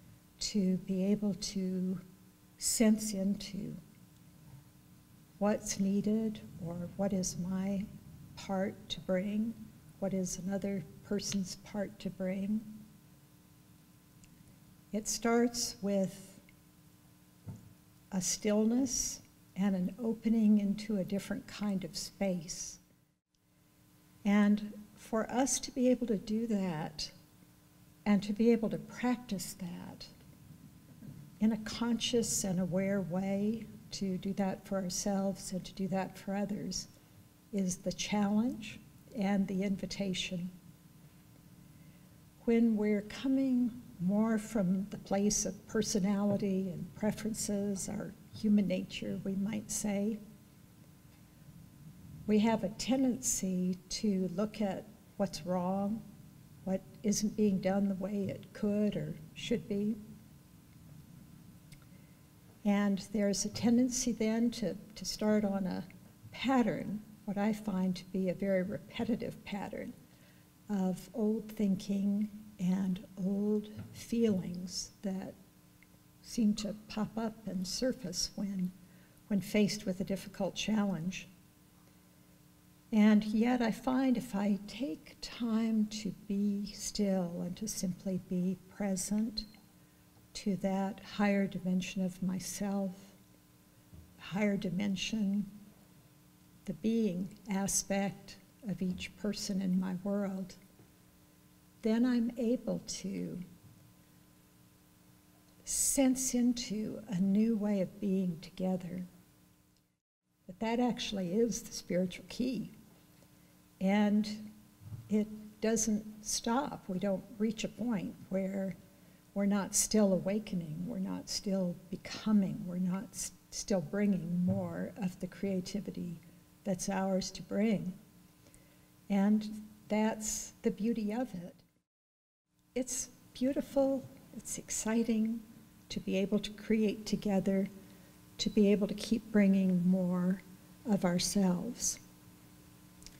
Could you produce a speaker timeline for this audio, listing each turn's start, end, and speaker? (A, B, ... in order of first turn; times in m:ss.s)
0:00.4-0:02.0 A
0:02.6-0:03.8 A
0:05.4-0:12.7 A
0:14.9-0:16.4 A
0:18.1-0:22.8 A
0:24.2-0:27.1 A
0:28.0-0:30.1 A
0:31.4-0:36.9 A
0:37.5-0:40.5 A
0:42.4-0:50.2 A
0:52.3-0:56.0 A
0:56.6-1:00.0 A
1:02.6-1:09.9 A
1:10.7-1:15.4 A
1:16.2-1:18.7 A
1:19.3-1:21.3 A
1:22.9-1:29.5 A
1:30.3-1:33.2 A
1:34.2-1:35.5 A
1:36.6-1:40.6 A
1:41.8-1:43.4 A
1:45.6-1:49.1 A
1:50.5-1:52.7 A
1:53.8-1:54.5 A
1:55.1-1:58.7 A
1:59.3-2:08.0 A
2:09.1-2:11.6 A
2:12.7-2:17.7 A
2:18.4-2:22.0 A